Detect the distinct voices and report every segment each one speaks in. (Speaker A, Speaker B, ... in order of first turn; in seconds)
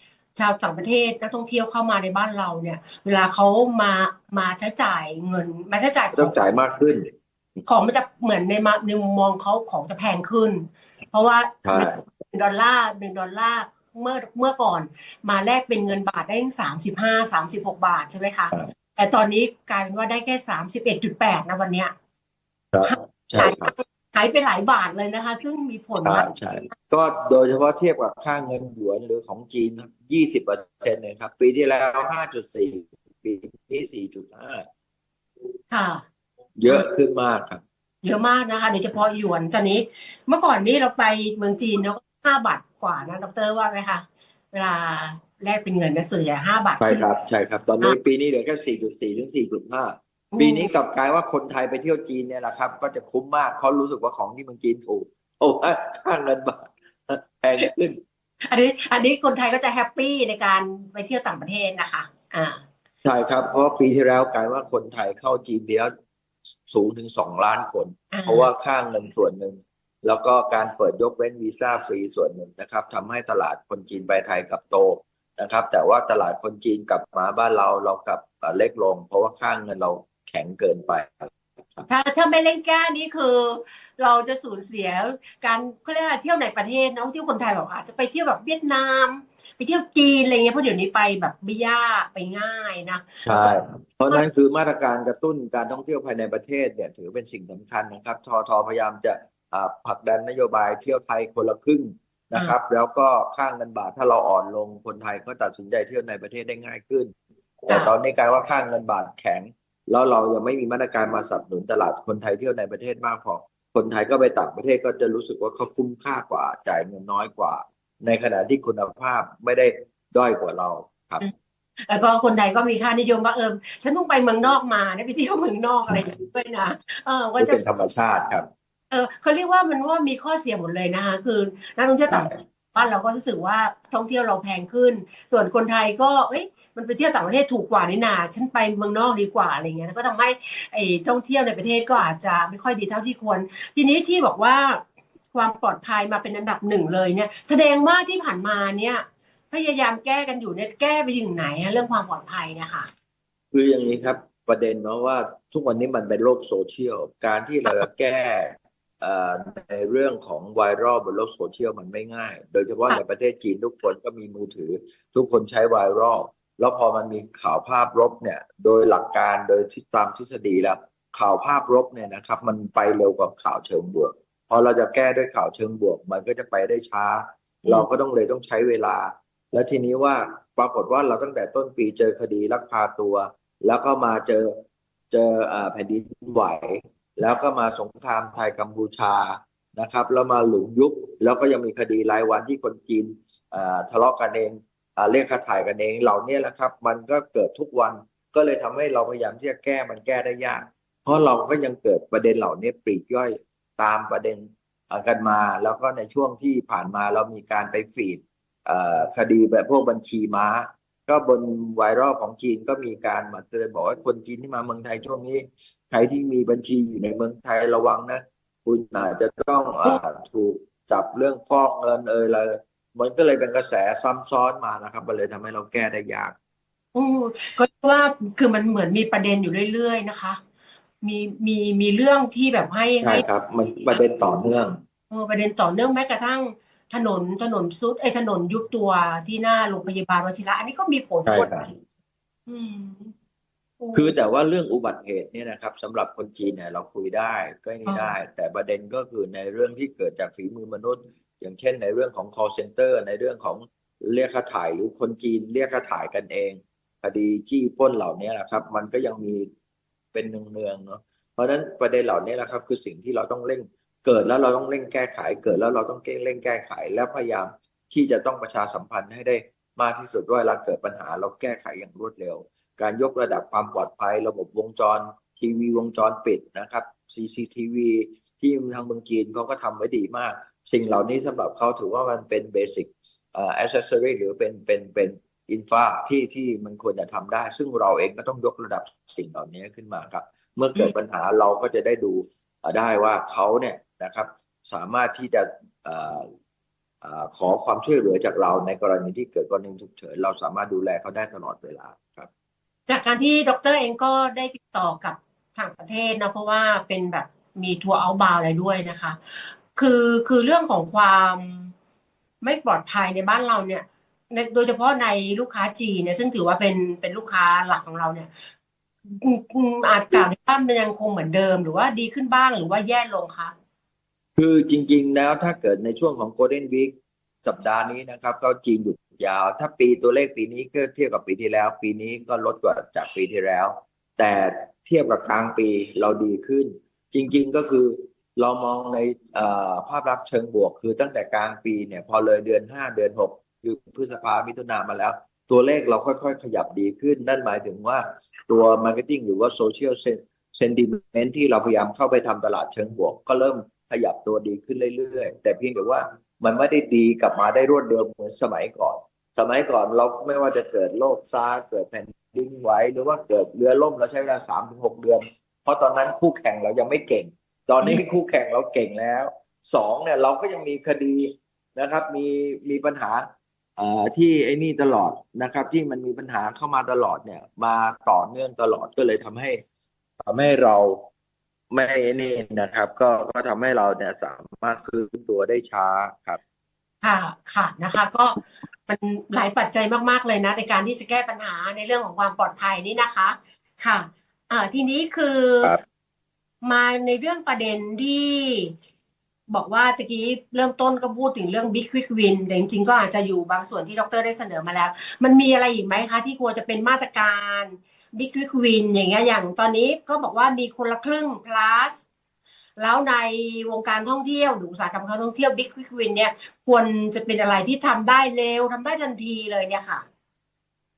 Speaker A: 0.4-6.5, 7.7-21.9, 22.8-26.3, 35.7-36.0, 38.0-47.0, 50.3-50.7, 58.5-62.6, 68.1-68.5, 81.9-93.5, 121.9-127.6, 128.9-152.9, 226.9-230.4, 231.0-233.2, 235.1-241.7, 242.5-243.1, 243.8-244.2, 247.9-248.2, 302.9-311.7, 312.4-318.5, 319.1-323.5, 387.0-395.8, 396.6-398.7, 399.5-412.1, 412.8-420.1
Speaker B: 6.1-7.1, 11.7-12.0, 22.7-23.7, 26.0-34.7, 36.6-37.6, 46.8-58.0, 63.0-65.9, 66.7-81.9, 93.3-107.1, 107.6-121.3, 127.4-128.5, 132.1-132.3, 153.5-184.6, 185.1-226.3, 233.0-234.8, 241.3-241.7, 243.9-259.5, 260.1-296.3, 297.0-302.3, 324.4-373.3, 373.8-379.6, 380.2-381.1, 381.7-386.4